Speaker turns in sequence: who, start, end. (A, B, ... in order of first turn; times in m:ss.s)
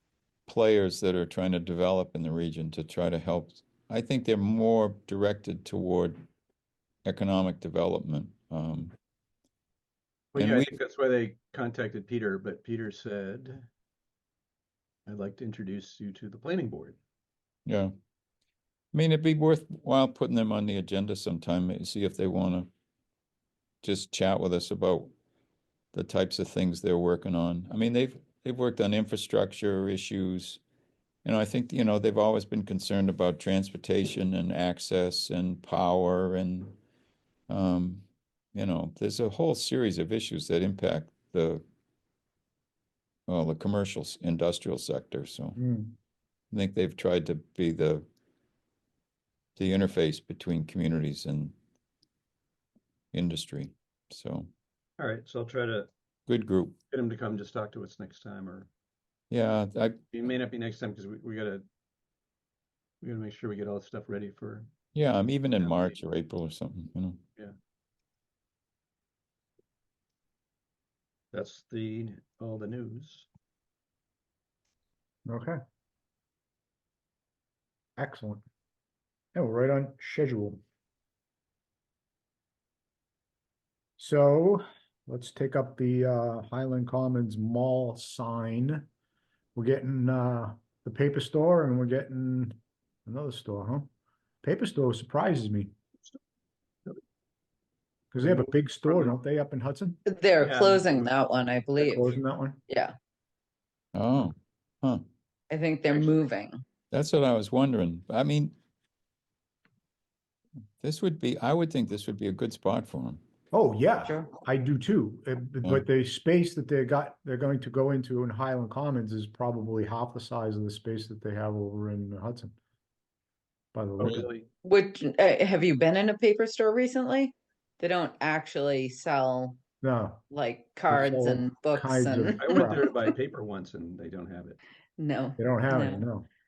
0:00.5-0:06.2 A
0:07.0-0:08.9 A
0:10.3-0:13.6 B
0:10.4-0:10.7 A
0:15.1-0:17.0 B
0:17.7-0:17.9 A
0:18.9-0:22.7 A
0:23.8-0:25.1 A
0:25.9-0:30.6 A
0:31.2-0:36.8 A
0:37.5-0:41.6 A
0:43.3-0:45.6 A
0:45.6-0:46.0 C
0:46.5-0:48.0 A
0:49.6-0:51.6 A
0:53.1-0:54.5 A
0:55.0-0:55.9 B
0:56.3-0:56.8 A
0:56.9-0:58.7 B
0:59.3-1:00.1 A
1:00.1-1:01.6 B
1:03.0-1:04.7 B
1:04.9-1:07.2 A
1:11.3-1:13.3 B
1:15.3-1:15.6 C
1:18.0-1:18.4 C
1:19.3-1:20.6 C
1:24.0-1:28.9 C
1:29.6-1:33.9 C
1:34.4-1:35.7 C
1:38.1-1:40.0 C
1:38.2-1:39.1 B
1:40.1-1:42.1 D
1:40.4-1:41.2 B
1:41.8-1:42.6 C
1:42.7-1:43.0 D
1:44.0-1:45.0 A
1:45.5-1:46.6 D
1:45.9-1:46.3 B
1:46.9-1:48.6 A
1:50.8-1:53.2 A
1:53.5-2:02.6 C
1:54.0-1:54.3 D
2:03.7-2:04.2 C
2:04.0-2:04.5 B
2:04.6-2:09.6 D
2:09.8-2:10.2 C
2:10.3-2:13.0 D
2:10.9-2:12.8 C
2:12.4-2:14.6 B
2:15.0-2:16.1 D
2:15.4-2:16.3 C